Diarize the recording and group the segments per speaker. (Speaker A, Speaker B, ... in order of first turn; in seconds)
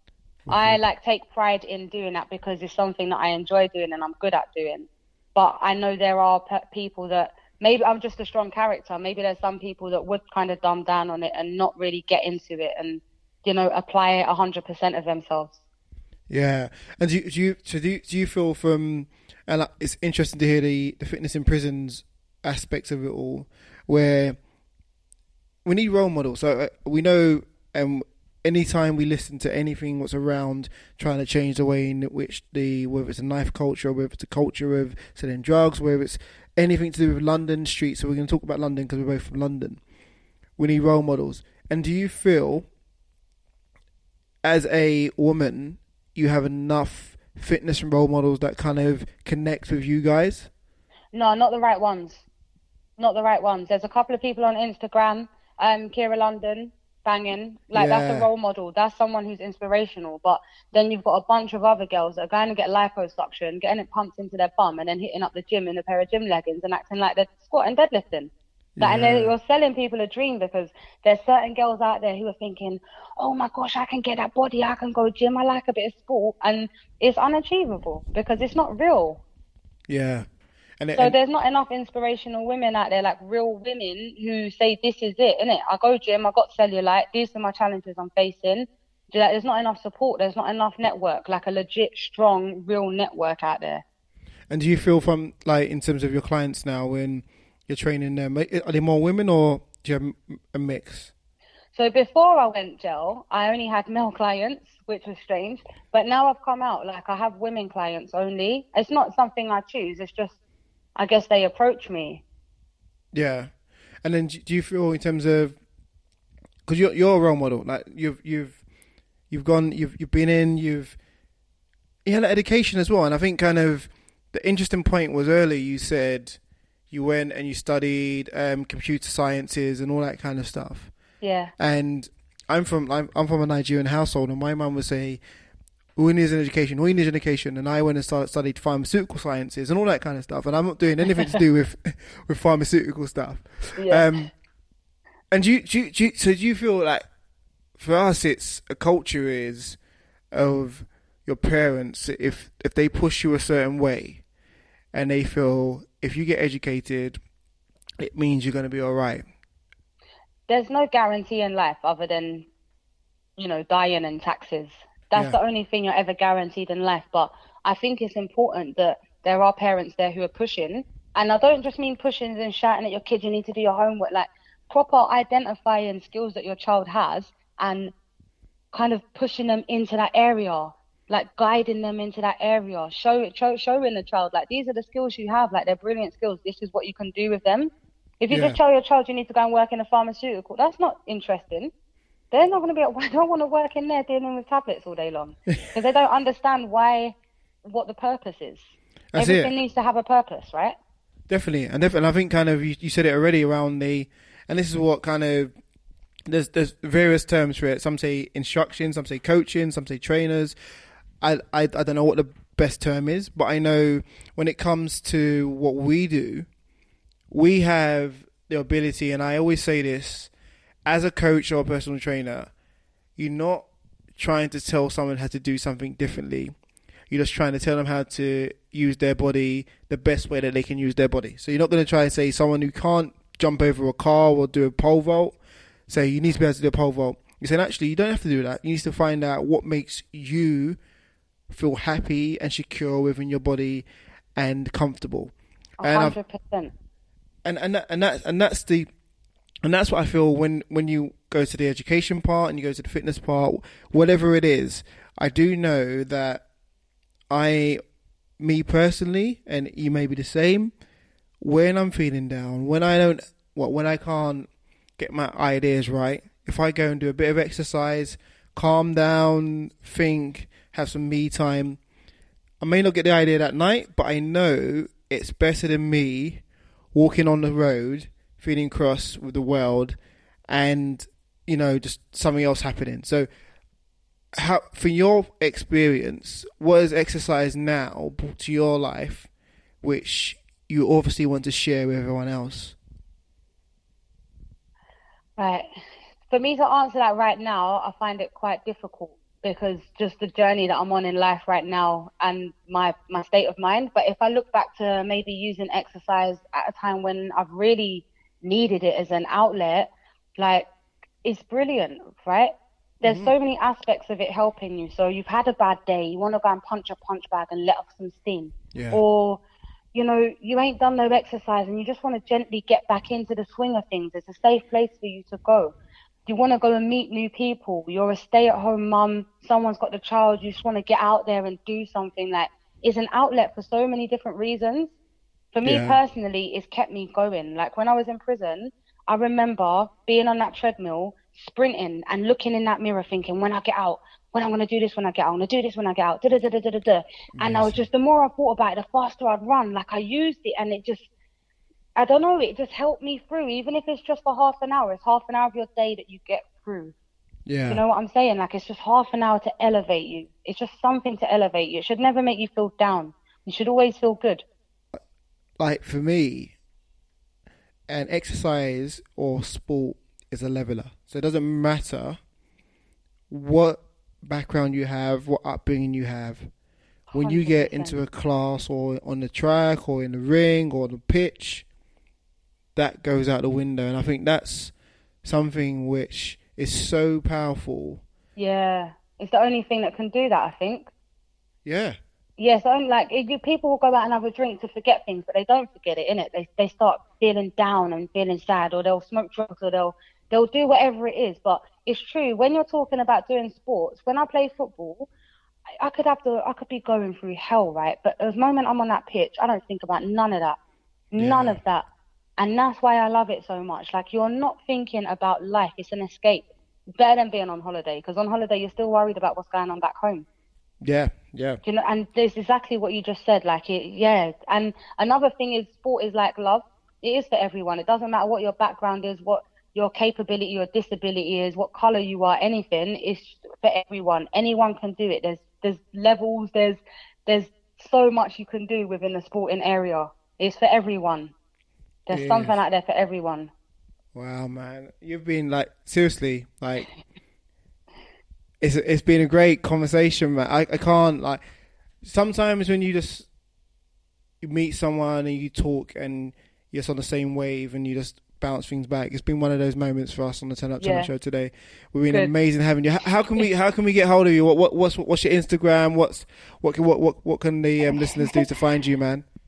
Speaker A: 0.5-0.8, 16.3-24.4, 25.6-39.8, 40.6-42.7, 44.4-50.5, 57.7-58.3, 68.8-69.3, 79.9-80.3, 80.8-81.2, 94.5-101.1, 113.1-113.5, 114.0-115.6, 116.7-118.6, 119.3-121.0, 122.1-126.4, 126.9-130.9, 131.6-135.2, 136.0-144.3, 145.3-147.0, 147.8-149.8, 150.3-154.2, 154.9-157.2, 158.0-159.2, 188.3-188.6, 199.1-199.5, 201.3-205.5, 206.3-210.6, 211.2-216.5, 217.3-220.3, 220.9-222.5, 223.2-226.5, 227.1-235.4, 235.9-240.8, 241.5-243.9, 244.4-246.2, 247.4-248.9, 249.6-256.4, 257.3-257.8, 258.4-260.7, 261.4-271.8, 272.6-276.4, 276.9-280.0, 280.5-283.3, 284.4-289.3, 289.8-292.8, 313.0-313.3, 318.7-319.0, 335.6-336.0, 347.4-347.8, 357.5-357.8, 365.6-366.5, 367.9-372.2, 373.3-376.5, 377.1-381.7, 382.8-384.7, 385.2-388.0, 391.6-392.0, 411.2-411.6, 420.8-421.6, 442.1-442.6, 444.1-446.9, 448.6-451.4, 452.0-453.3, 454.4-469.2
Speaker B: 0.5-15.6, 51.1-52.3, 53.0-79.2, 81.0-93.8, 101.7-110.4, 111.0-112.2, 131.2-131.5, 143.8-144.3, 160.5-162.5, 163.4-177.9, 178.7-191.7, 192.3-197.2, 197.7-200.8, 245.8-246.7, 295.4-295.7, 296.3-310.7, 311.2-319.4, 319.9-325.8, 326.3-335.0, 335.5-351.1, 352.0-356.9, 357.7-364.4, 377.1-378.0, 388.4-390.9, 392.4-405.1, 405.8-410.6, 411.1-411.9, 412.4-420.3, 421.6-441.3, 442.1-443.5, 460.8-461.1